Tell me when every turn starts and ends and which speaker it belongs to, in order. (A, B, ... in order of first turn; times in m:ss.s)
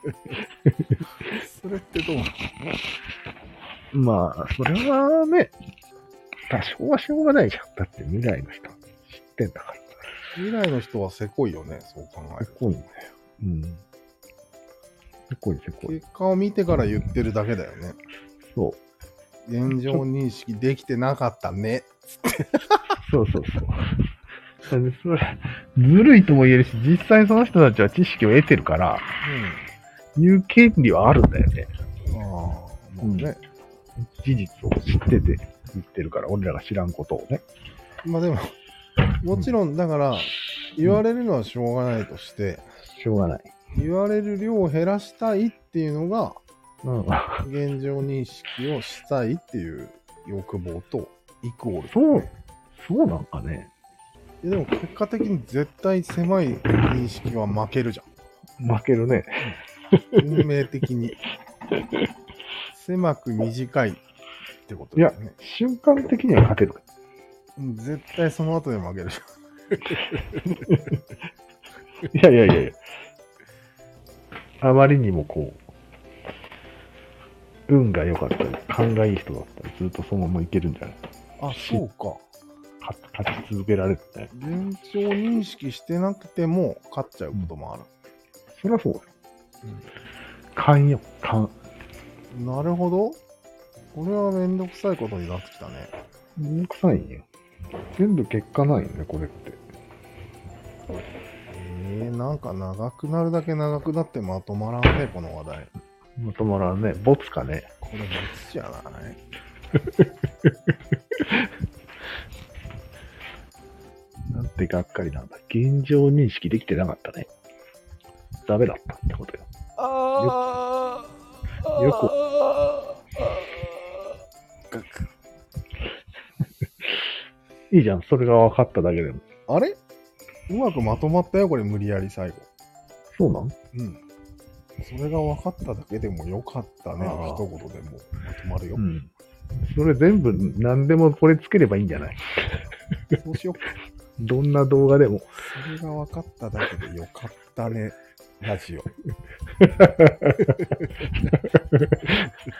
0:01.2-0:02.3 A
0:03.9-0:05.5 B
0:06.5-0:09.9 B
0:10.3-0:12.6 A
0:12.4-0:13.8 B
0:15.3-0:16.0 B
0:15.8-0:18.0 A
0:18.5-0:18.8 B
0:19.5-0:22.8 A
0:19.7-0:20.0 B
0:23.1-0:24.0 B
0:24.7-0:29.1 B
0:29.2-0:29.6 A
0:30.2-0:31.7 B
0:32.1-0:33.4 A
0:33.0-0:33.3 B
0:34.0-0:37.4 B
0:38.0-0:38.5 A
0:39.2-0:42.6 A
0:42.8-0:43.5 B
0:43.8-0:46.4 A
0:46.8-0:47.5 B
0:47.4-0:52.3 A
0:51.9-0:53.7 B
0:54.4-0:58.1 A
0:58.6-1:00.2 B
1:00.2-1:01.2 A
1:02.7-1:04.0 A
1:04.7-1:05.4 A
1:05.0-1:06.8 B
1:07.6-1:09.2 A
1:12.1-1:12.8 B
1:14.6-1:15.6 B
1:17.7-1:21.8 B
1:21.4-1:22.2 A
1:22.8-1:24.3 B
1:24.3-1:27.9 A
1:28.5-1:29.1 B
1:30.6-1:31.5 B
1:32.3-1:33.2 A
1:33.9-1:35.9 A
1:36.4-1:37.3 B
1:38.0-1:39.6 B
1:41.5-1:45.7 A
1:46.2-1:47.7 B
1:47.8-1:49.2 A
1:54.3-1:57.3 B
1:58.4-1:59.5 B
1:59.8-2:00.7 A
2:00.2-2:00.4 B
2:01.7-2:02.1 B
2:07.7-2:09.2 B
2:09.5-2:09.8 A
2:10.5-2:12.5 A
2:13.1-2:13.5 B
2:13.7-2:14.0 A
2:14.8-2:18.8 A
2:17.0-2:17.4 B
2:18.8-2:19.1 B
2:19.6-2:22.6 B
2:23.2-2:23.7 A
2:24.2-2:25.3 B
2:25.4-2:28.9 A
2:29.6-2:30.5 B
2:31.7-2:32.1 B